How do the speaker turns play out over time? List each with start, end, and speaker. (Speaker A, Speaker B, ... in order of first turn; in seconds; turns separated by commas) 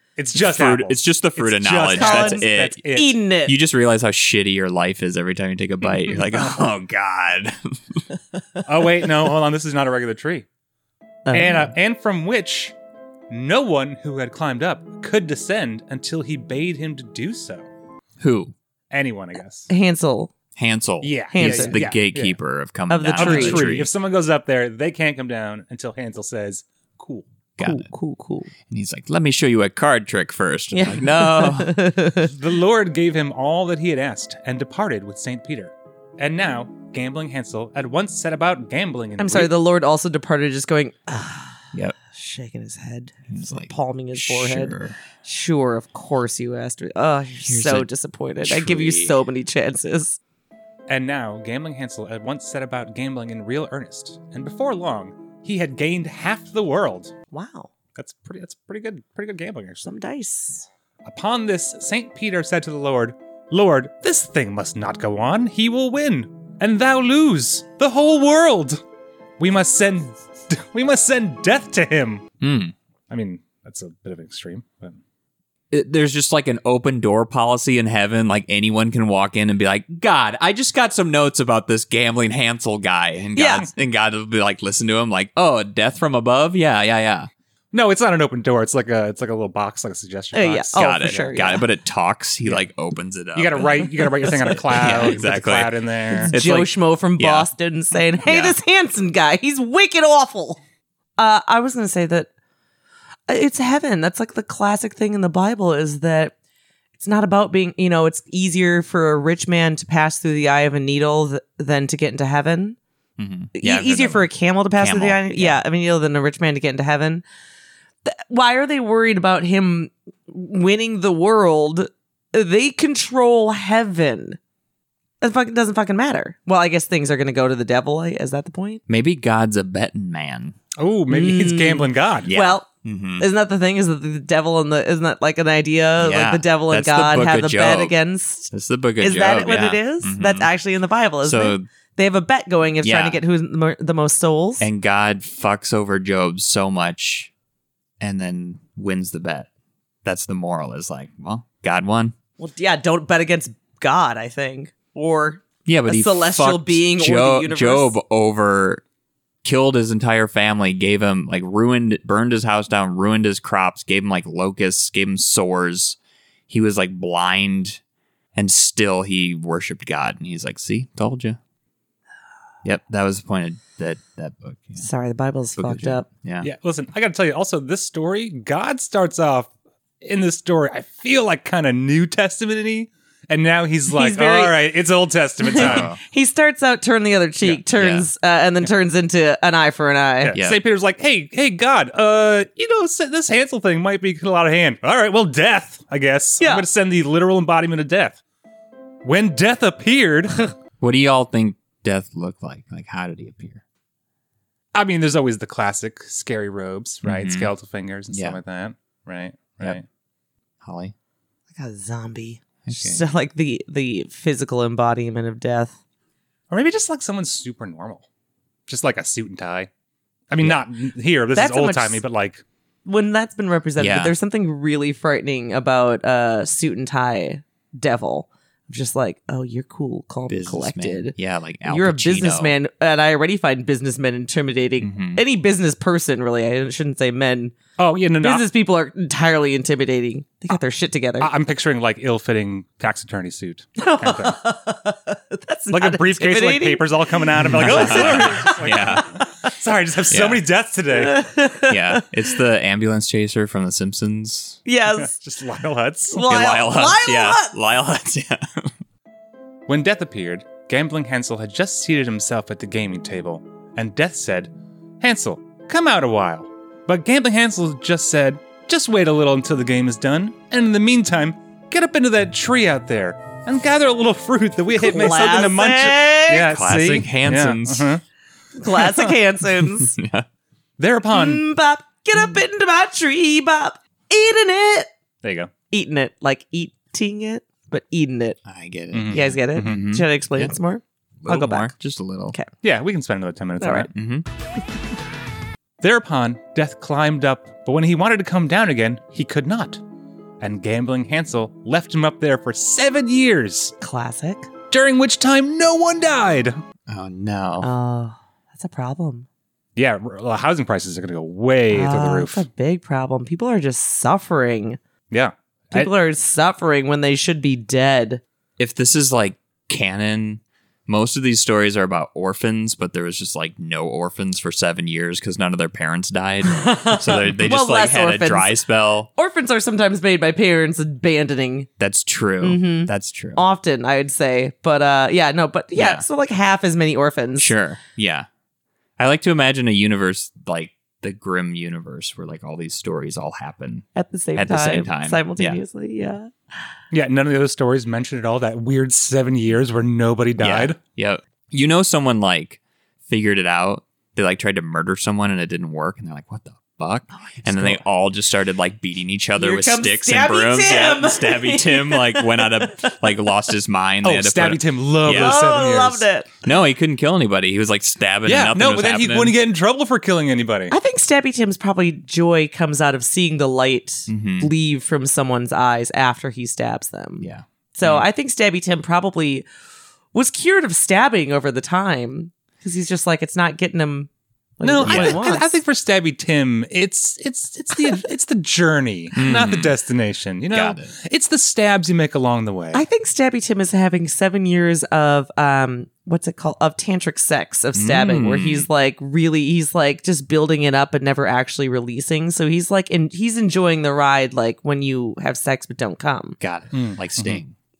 Speaker A: 0.1-3.2, Speaker B: 0.3-2.8, Speaker C: 1.9-3.5, Speaker B: 3.5-8.0, Speaker A: 8.6-10.4, Speaker C: 11.2-11.7, Speaker A: 11.3-12.7, Speaker A: 13.3-17.6, Speaker B: 18.2-18.5, Speaker A: 18.9-19.7, Speaker C: 19.7-20.3, Speaker B: 20.6-23.9, Speaker A: 21.0-22.4, Speaker C: 21.3-21.8, Speaker C: 22.9-23.8, Speaker A: 23.2-27.3, Speaker B: 27.6-27.9, Speaker C: 27.6-28.5, Speaker B: 28.6-31.8, Speaker C: 30.7-32.3, Speaker A: 32.2-39.5, Speaker C: 39.2-50.2, Speaker B: 43.3-45.0, Speaker B: 47.4-47.9, Speaker B: 48.4-49.2, Speaker A: 50.9-57.1, Speaker C: 57.3-57.7, Speaker A: 58.0-59.9, Speaker C: 59.8-60.7, Speaker A: 61.0-68.8, Speaker A: 69.4-72.2, Speaker B: 72.4-72.7, Speaker A: 73.1-75.0, Speaker B: 75.7-87.3, Speaker C: 83.3-83.7, Speaker A: 87.7-91.3, Speaker C: 90.3-91.6, Speaker B: 90.8-97.5, Speaker A: 93.3-96.3, Speaker C: 94.3-95.0, Speaker C: 96.1-100.6, Speaker B: 98.2-98.6, Speaker C: 101.2-102.3, Speaker C: 103.3-106.3, Speaker C: 107.0-112.8, Speaker B: 113.2-115.6, Speaker C: 113.5-117.2, Speaker C: 118.0-124.4, Speaker C: 125.2-128.8, Speaker B: 128.9-130.6, Speaker A: 130.8-132.3, Speaker C: 131.1-132.7, Speaker B: 132.2-133.2, Speaker C: 133.2-144.7, Speaker B: 136.0-137.9, Speaker B: 138.5-140.5, Speaker B: 141.2-141.7, Speaker B: 142.8-143.2, Speaker B: 144.6-147.3, Speaker B: 148.0-149.5, Speaker B: 150.0-152.1, Speaker C: 152.4-157.9, Speaker B: 155.7-158.8, Speaker B: 159.4-166.0, Speaker B: 166.5-167.8, Speaker B: 168.3-171.4, Speaker B: 172.6-174.8, Speaker C: 174.8-176.1, Speaker B: 175.6-176.5, Speaker A: 176.4-179.5, Speaker A: 180.0-185.9, Speaker C: 183.9-184.6, Speaker C: 185.4-190.4, Speaker B: 185.6-186.0, Speaker B: 187.5-188.1, Speaker A: 190.2-198.2, Speaker B: 190.3-190.6, Speaker C: 196.4-196.6, Speaker A: 199.0-200.5, Speaker B: 200.8-203.6, Speaker A: 204.7-209.8, Speaker B: 207.0-207.5, Speaker B: 208.1-208.4, Speaker B: 210.6-210.9, Speaker C: 211.6-215.7, Speaker B: 212.6-213.0, Speaker A: 216.5-218.1, Speaker A: 218.7-219.7, Speaker A: 220.3-222.4, Speaker C: 221.3-222.0, Speaker C: 222.8-237.5, Speaker B: 223.8-224.1, Speaker B: 230.3-232.5, Speaker B: 234.8-235.2, Speaker A: 237.8-238.5, Speaker C: 238.2-241.3, Speaker A: 241.2-244.4, Speaker C: 243.8-249.0, Speaker A: 245.7-251.2, Speaker B: 247.4-249.1, Speaker B: 250.1-250.4, Speaker C: 250.9-252.3, Speaker B: 251.7-254.6, Speaker C: 254.7-255.1, Speaker A: 254.9-256.2, Speaker C: 256.1-257.5, Speaker B: 256.2-258.7, Speaker A: 259.7-278.0, Speaker C: 274.7-276.5, Speaker B: 276.4-277.9, Speaker C: 278.6-279.9, Speaker B: 279.6-280.2, Speaker A: 280.8-281.4, Speaker C: 281.1-284.9, Speaker A: 285.2-285.5, Speaker C: 285.7-288.4, Speaker B: 288.4-290.5, Speaker A: 288.9-289.8, Speaker C: 289.1-291.7, Speaker B: 291.2-292.4, Speaker A: 292.6-293.9, Speaker C: 293.6-293.9, Speaker B: 293.9-294.2, Speaker A: 295.8-299.8, Speaker A: 300.4-303.7, Speaker C: 303.8-304.5, Speaker A: 304.7-306.6, Speaker B: 306.9-307.7, Speaker C: 307.6-309.3, Speaker A: 309.8-312.4, Speaker C: 311.7-314.8, Speaker A: 315.1-315.9, Speaker C: 315.7-318.2, Speaker B: 318.6-329.1, Speaker C: 326.5-328.6, Speaker C: 329.1-331.7, Speaker B: 331.8-333.4, Speaker C: 332.4-337.5, Speaker B: 335.7-336.0, Speaker B: 337.4-338.3, Speaker B: 339.0-345.6, Speaker C: 343.9-346.3, Speaker A: 346.9-350.8, Speaker B: 350.4-365.4, Speaker C: 359.4-362.9, Speaker A: 364.0-366.0, Speaker C: 365.1-366.3, Speaker B: 366.4-369.4, Speaker A: 368.2-370.7, Speaker C: 370.7-379.4, Speaker B: 374.1-374.5, Speaker B: 377.2-378.1, Speaker C: 380.1-385.6, Speaker A: 384.6-392.8, Speaker B: 384.8-385.2, Speaker B: 389.1-389.7, Speaker B: 390.5-390.9, Speaker C: 392.7-406.4, Speaker B: 397.7-398.7, Speaker B: 406.4-407.5, Speaker A: 406.7-407.4